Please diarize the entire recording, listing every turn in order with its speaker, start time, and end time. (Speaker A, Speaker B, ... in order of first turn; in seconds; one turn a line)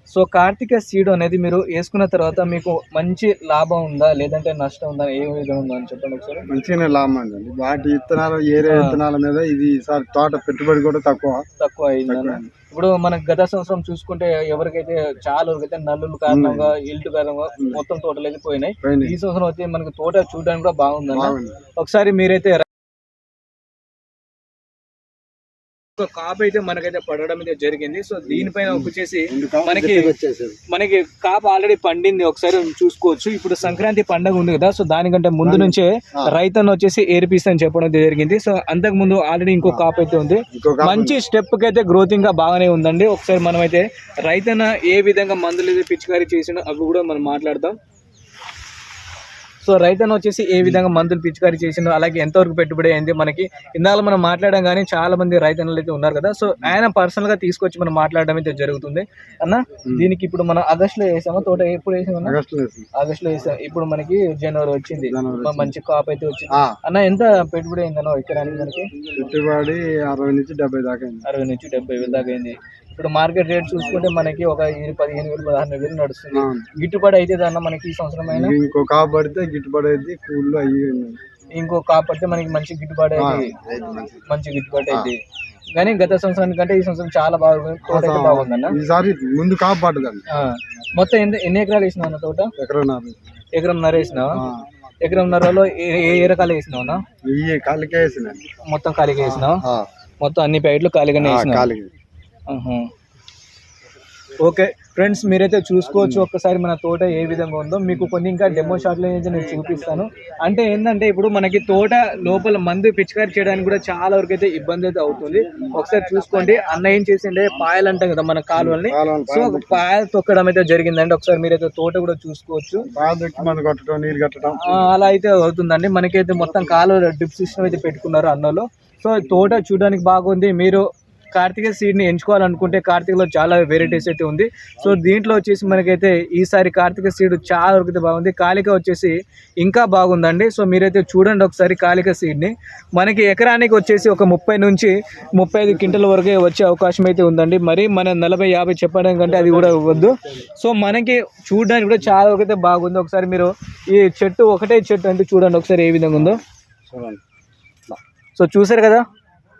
Speaker A: 0.1-6.4
Speaker B: 6.5-11.4
Speaker A: 8.6-9.0
Speaker A: 11.6-22.6
Speaker B: 12.1-12.5
Speaker B: 16.3-16.7
Speaker B: 17.6-17.8
Speaker B: 18.8-19.2
Speaker B: 21.1-21.6
Speaker A: 25.9-30.1
Speaker B: 28.3-30.6
Speaker A: 30.7-47.8
Speaker B: 35.4-36.3
Speaker B: 40.5-41.2
Speaker A: 49.6-62.4
Speaker B: 59.8-60.1
Speaker B: 62.2-62.9
Speaker A: 62.9-68.9
Speaker B: 65.1-65.7
Speaker B: 66.5-66.8
Speaker B: 69.0-71.2
Speaker A: 71.2-78.5
Speaker B: 76.3-76.7
Speaker B: 78.3-81.2
Speaker A: 81.5-83.5
Speaker B: 83.2-84.2
Speaker A: 84.3-85.2
Speaker A: 85.7-88.8
Speaker B: 87.8-90.2
Speaker A: 90.3-92.5
Speaker B: 92.6-93.2
Speaker A: 93.5-94.4
Speaker B: 94.3-94.6
Speaker A: 95.0-97.0
Speaker B: 97.3-98.4
Speaker A: 98.6-99.6
Speaker B: 99.2-99.9
Speaker A: 100.2-101.7
Speaker B: 101.2-101.9
Speaker A: 102.5-102.9
Speaker A: 104.4-122.9
Speaker B: 106.0-106.3
Speaker B: 118.5-119.9
Speaker B: 122.9-124.9
Speaker A: 124.6-156.4
Speaker B: 145.7-146.0
Speaker B: 149.3-150.4
Speaker B: 156.2-157.2
Speaker A: 158.3-159.0